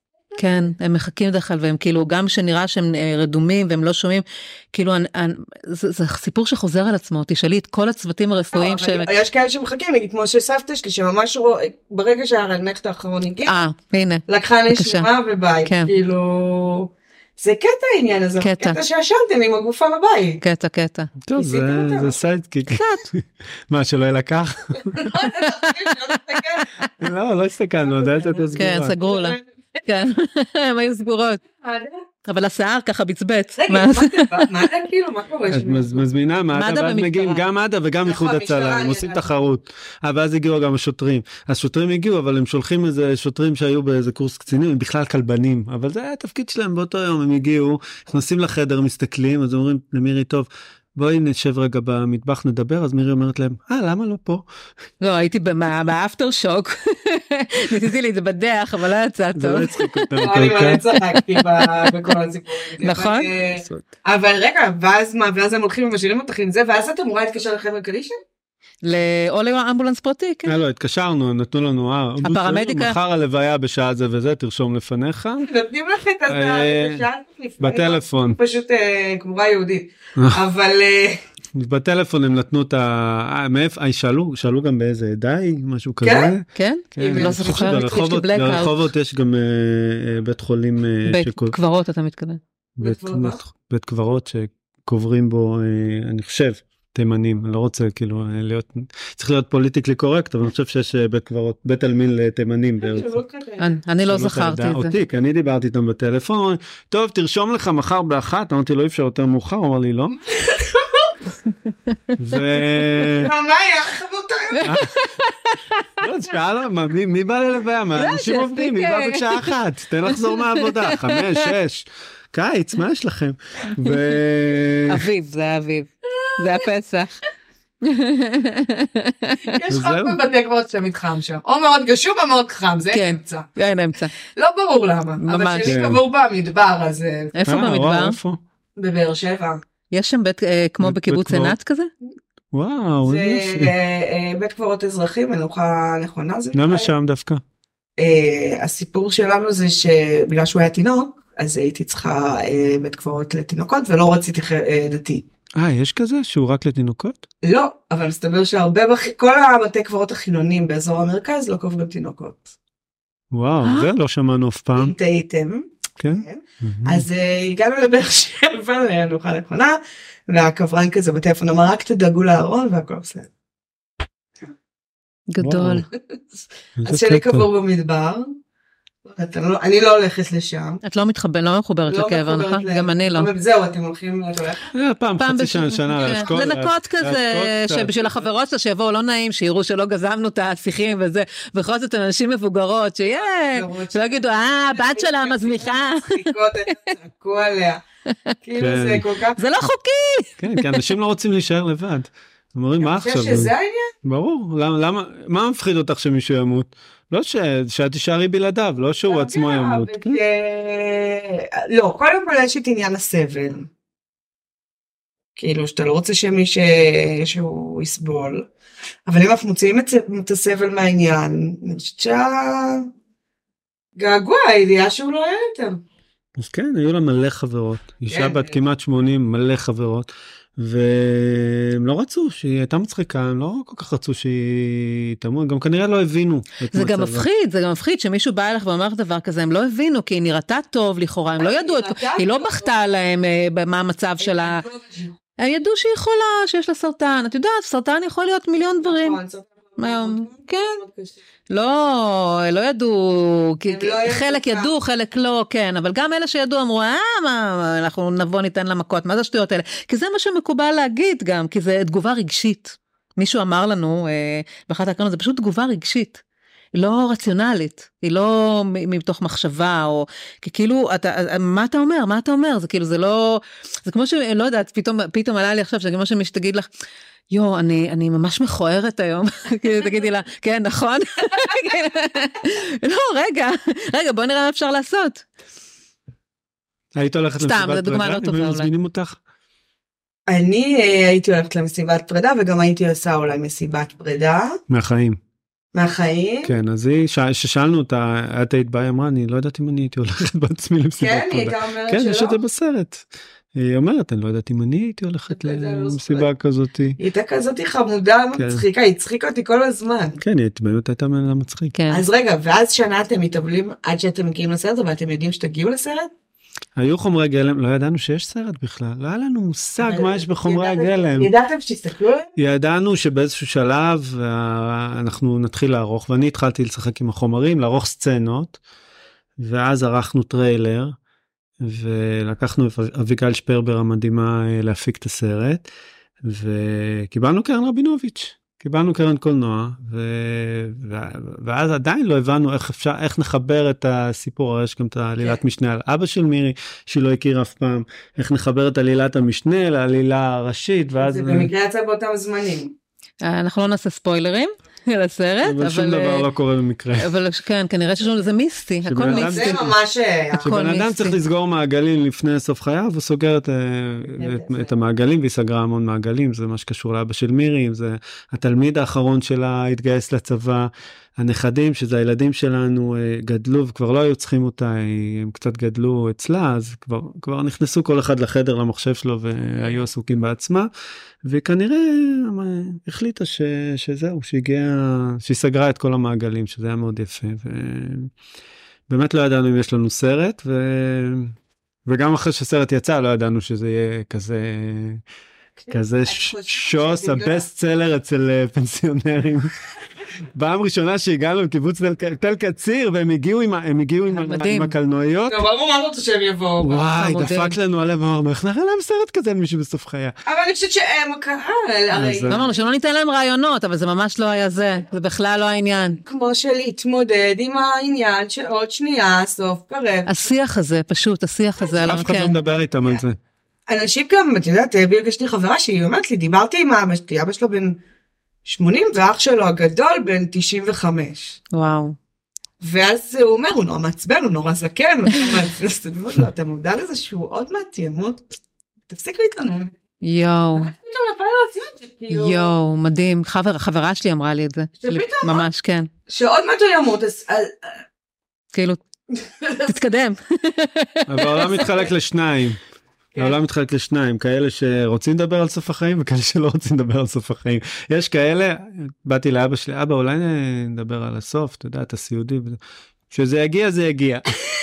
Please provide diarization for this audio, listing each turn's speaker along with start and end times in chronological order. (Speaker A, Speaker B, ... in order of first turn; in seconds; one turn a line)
Speaker A: 0.3-0.7
Speaker B: 0.4-9.1
Speaker A: 8.5-13.6
Speaker B: 13.4-15.1
Speaker A: 14.3-20.4
Speaker B: 15.7-15.9
Speaker B: 18.4-18.8
Speaker B: 20.4-21.1
Speaker C: 21.2-25.1
Speaker A: 21.4-22.2
Speaker B: 22.7-23.1
Speaker A: 24.9-26.7
Speaker B: 25.2-26.9
Speaker C: 27.0-28.9
Speaker A: 27.9-29.4
Speaker B: 28.5-31.4
Speaker A: 31.6-32.0
Speaker B: 32.2-34.5
Speaker A: 33.6-36.0
Speaker C: 35.5-54.4
Speaker B: 36.5-37.4
Speaker A: 38.0-39.3
Speaker B: 55.0-60.3
Speaker C: 59.3-60.8
Speaker A: 60.2-68.2
Speaker B: 60.9-62.1
Speaker B: 62.8-63.3
Speaker C: 63.5-63.9
Speaker B: 68.8-70.5
Speaker C: 70.5-75.5
Speaker B: 72.2-73.0
Speaker A: 75.4-81.2
Speaker C: 76.3-77.0
Speaker C: 77.6-78.4
Speaker C: 81.5-91.5
Speaker A: 86.0-86.3
Speaker B: 86.5-88.9
Speaker A: 87.0-88.1
Speaker B: 91.1-92.4
Speaker C: 92.8-103.1
Speaker A: 92.8-93.4
Speaker A: 102.8-103.8
Speaker B: 103.6-104.9
Speaker C: 104.1-110.2
Speaker A: 110.3-111.1
Speaker C: 112.2-113.3
Speaker A: 113.2-114.8
Speaker B: 114.5-115.9
Speaker C: 114.6-114.9
Speaker C: 116.0-125.1
Speaker B: 118.0-119.5
Speaker B: 120.1-121.5
Speaker B: 124.9-127.1
Speaker A: 126.1-126.6
Speaker B: 127.8-129.5
Speaker A: 129.5-133.5
Speaker C: 129.7-130.2
Speaker B: 132.9-134.1
Speaker A: 134.3-137.3
Speaker B: 135.2-135.7
Speaker C: 135.6-136.0
Speaker B: 137.3-138.2
Speaker C: 137.4-138.4
Speaker A: 138.8-139.6
Speaker B: 139.9-141.9
Speaker C: 140.8-141.5
Speaker C: 142.5-143.7
Speaker A: 143.0-146.9
Speaker C: 146.5-147.4
Speaker A: 148.0-155.2
Speaker C: 155.6-157.2
Speaker A: 157.4-162.5
Speaker C: 163.3-164.9
Speaker A: 164.8-173.3
Speaker C: 166.0-167.1
Speaker B: 175.3-175.8
Speaker C: 175.4-175.8
Speaker A: 176.3-178.3
Speaker C: 176.8-177.5
Speaker A: 179.1-180.8
Speaker B: 180.8-183.3
Speaker A: 181.9-184.7
Speaker C: 184.7-188.2
Speaker B: 185.2-196.3
Speaker A: 186.0-186.4
Speaker A: 193.1-197.8
Speaker A: 198.4-199.4
Speaker C: 198.6-199.1
Speaker B: 199.4-200.8
Speaker C: 200.4-203.5
Speaker A: 202.8-203.9
Speaker C: 204.0-210.2
Speaker A: 209.1-213.7
Speaker A: 215.4-218.5
Speaker A: 219.1-222.9
Speaker A: 223.9-225.8
Speaker C: 226.4-237.2
Speaker A: 228.1-228.6
Speaker B: 236.7-244.6
Speaker A: 241.4-242.7
Speaker A: 244.2-245.1
Speaker B: 245.4-249.2
Speaker A: 248.8-251.2
Speaker B: 249.8-250.8
Speaker B: 251.5-266.2
Speaker A: 253.7-254.7
Speaker B: 266.7-276.7
Speaker B: 277.3-285.2
Speaker C: 286.9-289.2
Speaker B: 287.4-288.7
Speaker A: 290.3-294.6
Speaker C: 294.7-295.2
Speaker A: 295.7-296.5
Speaker C: 296.4-307.0
Speaker A: 301.0-302.4
Speaker A: 305.3-306.3
Speaker A: 307.0-310.2
Speaker C: 308.4-308.6
Speaker C: 310.2-311.7
Speaker B: 311.7-312.0
Speaker A: 311.9-316.1
Speaker C: 316.8-321.3
Speaker A: 319.8-322.3
Speaker C: 322.4-328.6
Speaker C: 329.4-330.9
Speaker C: 331.6-335.7
Speaker C: 336.2-351.5
Speaker A: 351.0-352.7
Speaker B: 353.2-356.2
Speaker C: 355.4-357.1
Speaker B: 357.0-359.6
Speaker C: 358.8-359.7
Speaker A: 359.0-360.5
Speaker C: 360.3-380.7
Speaker B: 360.4-361.2
Speaker A: 364.2-364.7
Speaker C: 381.2-388.1
Speaker C: 388.9-395.0
Speaker A: 395.6-397.4
Speaker C: 395.7-399.5
Speaker C: 400.3-405.4
Speaker B: 404.1-404.7
Speaker A: 405.3-406.8
Speaker C: 406.6-410.1
Speaker B: 406.9-407.6
Speaker A: 410.2-412.6
Speaker C: 411.9-412.4
Speaker B: 412.3-416.0
Speaker A: 416.0-420.2
Speaker B: 420.1-422.3
Speaker A: 421.6-422.1
Speaker C: 421.8-423.2
Speaker A: 423.7-427.8
Speaker A: 428.4-431.4
Speaker B: 431.5-432.0
Speaker A: 432.6-438.3
Speaker A: 438.9-439.7
Speaker B: 440.0-440.7
Speaker A: 440.5-442.5
Speaker B: 442.1-445.9
Speaker A: 444.8-445.5
Speaker A: 446.1-447.8
Speaker B: 448.5-448.8
Speaker A: 449.1-449.7
Speaker B: 449.6-451.6
Speaker C: 451.1-452.6
Speaker A: 451.6-451.9
Speaker C: 453.1-462.6
Speaker C: 463.1-464.4